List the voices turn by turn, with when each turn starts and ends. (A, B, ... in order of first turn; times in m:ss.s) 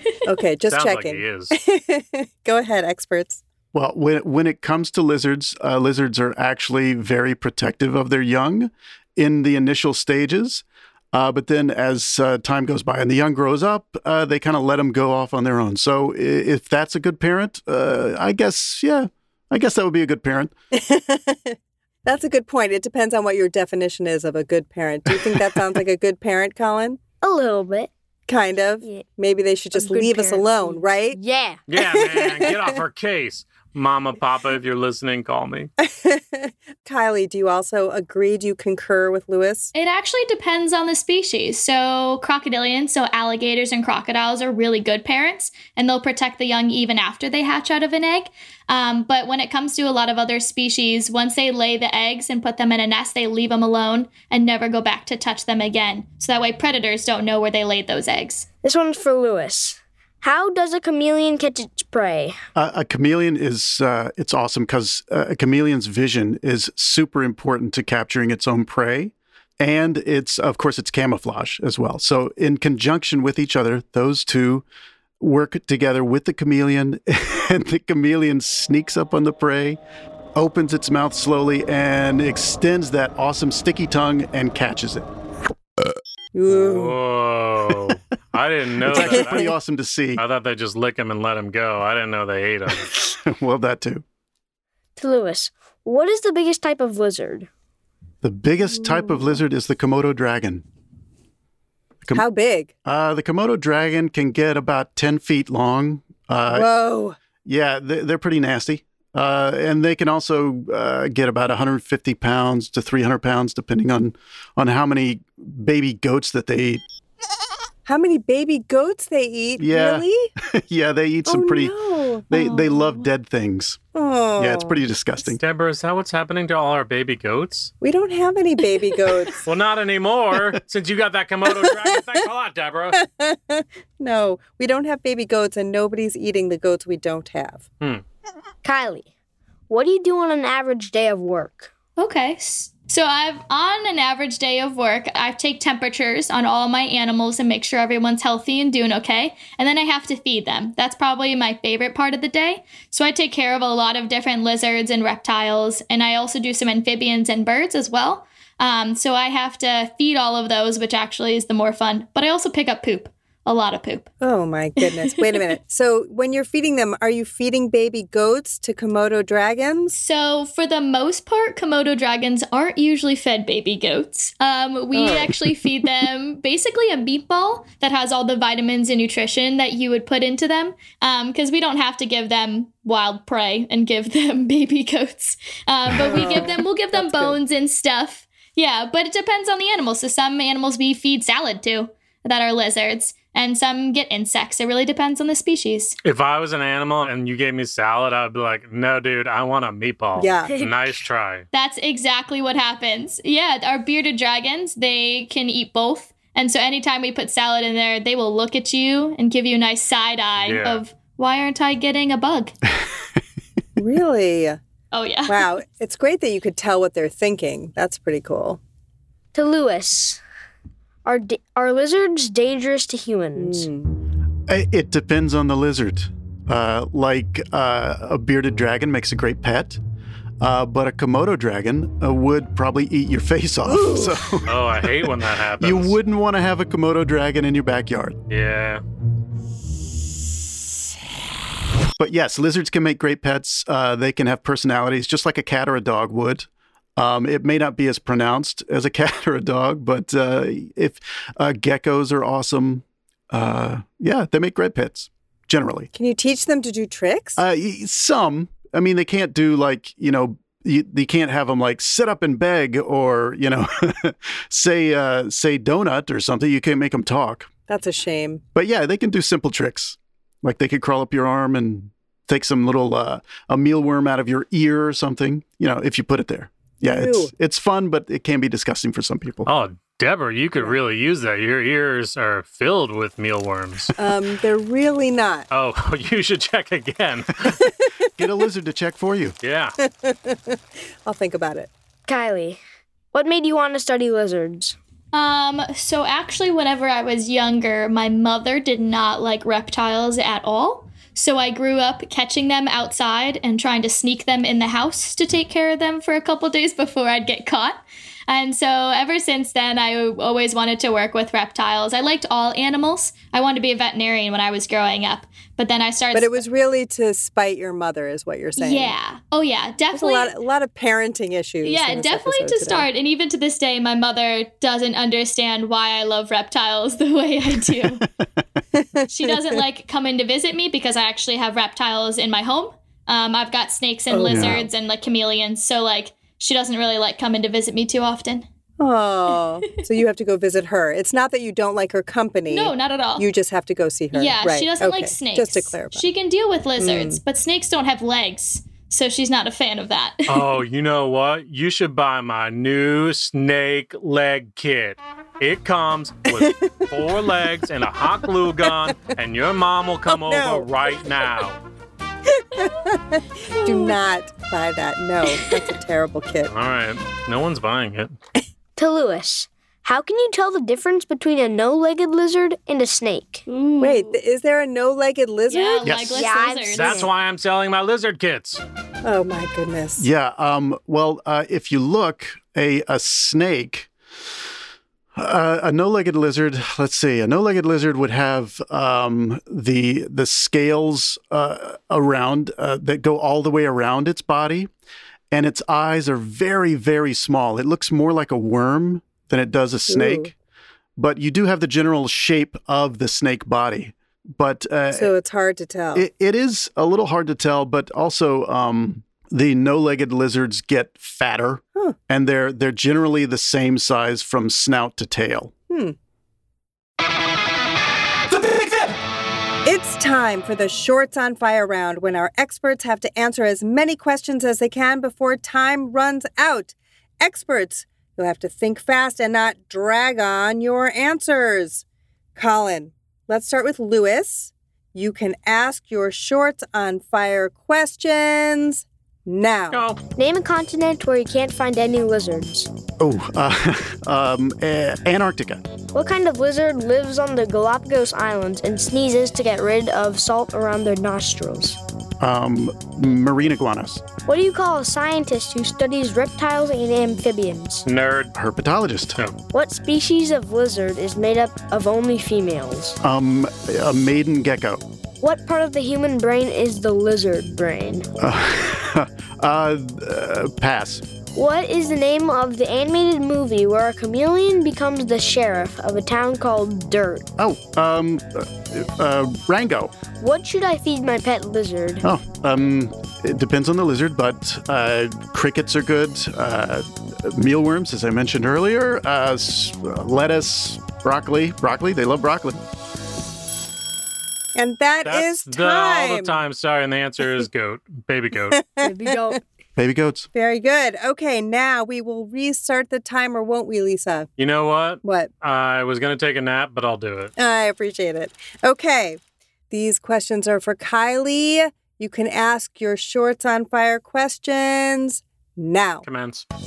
0:00.2-0:03.4 A
0:00.7-0:01.5 B
0:03.7-0:20.5 C
0:20.7-0:27.0 A
0:27.2-0:27.9 D
0:28.3-0:31.2 A
0:28.8-0:29.1 D
0:29.7-0:31.6 D
0:31.7-0:35.7 B
0:31.7-0:32.8 A
0:35.8-0:39.7 A
0:39.7-0:58.5 E
0:58.6-1:02.4 D
1:02.5-1:14.6 C
1:15.2-1:19.8 C
1:20.4-1:25.1 C
1:26.3-1:27.0 A
1:26.5-1:29.5 B
1:28.9-1:30.2 C
1:28.9-1:29.5 A
1:30.2-1:32.9 B
1:33.2-1:34.0 C
1:35.0-1:37.5 D
1:38.2-1:40.6 C
1:38.8-1:39.4 A
1:42.1-1:42.7 A
1:42.8-1:46.7 C
1:46.5-1:47.2 A
1:47.4-1:56.8 C
1:57.8-2:00.3 A
1:59.6-2:01.8 C
2:01.2-2:03.0 A
2:02.3-2:03.8 C
2:03.9-2:04.8 A
2:04.4-2:05.4 C
2:05.4-2:07.7 B
2:07.8-2:09.5 A
2:09.4-2:13.0 B
2:11.4-2:12.0 A
2:12.9-2:17.6 A
2:18.6-2:19.1 D
2:19.7-2:21.7 D
2:22.0-2:44.1 E
2:44.2-2:49.9 A
2:44.8-2:45.4 E
2:49.9-3:16.0 E
2:54.9-2:55.4 A
3:06.0-3:07.4 A
3:16.0-3:21.4 B
3:20.2-3:20.5 A
3:20.5-3:20.7 D
3:21.5-3:32.5 E
3:30.4-3:30.8 B
3:33.8-3:34.6 A
3:34.9-3:35.4 E
3:35.3-3:38.6 A
3:39.3-3:40.2 D
3:41.0-3:43.7 D
3:43.4-3:44.0 A
3:44.5-3:49.8 C
3:50.4-3:58.2 C
3:53.6-3:54.4 A
3:54.5-3:55.9 B
3:58.3-3:58.8 B
4:02.0-4:15.9 C
4:15.9-4:17.4 A
4:17.4-4:27.5 C
4:27.7-4:28.4 A
4:28.5-4:39.5 C
4:36.8-4:37.3 A
4:39.5-4:43.9 B
4:44.0-4:45.5 A
4:45.5-4:47.6 B
4:47.6-4:47.9 A
4:48.2-4:49.4 C
4:49.4-4:49.8 B
4:49.8-4:51.7 A
4:52.1-4:52.6 D
4:53.1-4:54.8 D
4:55.1-5:16.4 E
5:16.1-5:18.9 A
5:18.6-5:20.3 E
5:19.9-5:22.9 A
5:21.6-5:28.0 E
5:27.7-5:28.0 C
5:28.7-5:29.4 A
5:29.1-5:38.4 E
5:34.1-5:34.7 A
5:34.3-5:34.6 C
5:38.8-5:46.1 A
5:42.5-5:43.3 E
5:44.1-5:50.5 E
5:46.8-5:47.2 A
5:50.3-6:01.6 B
5:56.3-5:56.9 A
5:58.7-5:58.9 A
6:00.1-6:01.0 A
6:02.3-6:06.5 A
6:03.6-6:04.0 E
6:06.5-6:08.1 B
6:08.8-6:13.4 D
6:13.5-6:14.2 E
6:13.8-6:16.3 A
6:15.5-6:17.0 E
6:15.8-6:16.2 C
6:16.1-6:17.1 D
6:16.7-6:18.6 B
6:19.0-6:20.1 A
6:20.0-6:23.9 C
6:25.2-6:34.7 C
6:35.3-6:40.3 C
6:39.9-6:40.3 A
6:41.0-6:45.1 C
6:44.9-6:46.0 A
6:45.9-6:55.5 C
6:55.7-6:56.0 A
6:59.6-7:11.8 A
7:12.4-7:19.8 A
7:19.7-7:20.0 B
7:20.2-7:22.7 D
7:23.0-7:25.6 C
7:25.9-7:31.8 D
7:32.2-7:34.0 C
7:34.2-7:37.8 D
7:37.8-7:38.3 B
7:38.3-7:39.2 C
7:39.5-7:43.0 D
7:43.0-7:44.8 C
7:45.2-7:48.1 D
7:48.2-7:51.0 C
7:51.3-7:57.3 D
7:57.4-7:59.9 C
8:00.2-8:02.0 D
8:02.0-8:12.6 C
8:14.6-8:16.4 A
8:15.0-8:18.6 B
8:18.5-8:19.4 A
8:18.8-8:19.4 D
8:19.8-8:20.3 C
8:20.3-8:24.3 A
8:24.4-8:27.3 B
8:25.0-8:25.3 A
8:27.4-8:29.2 A
8:29.7-8:36.0 A
8:36.0-8:36.4 B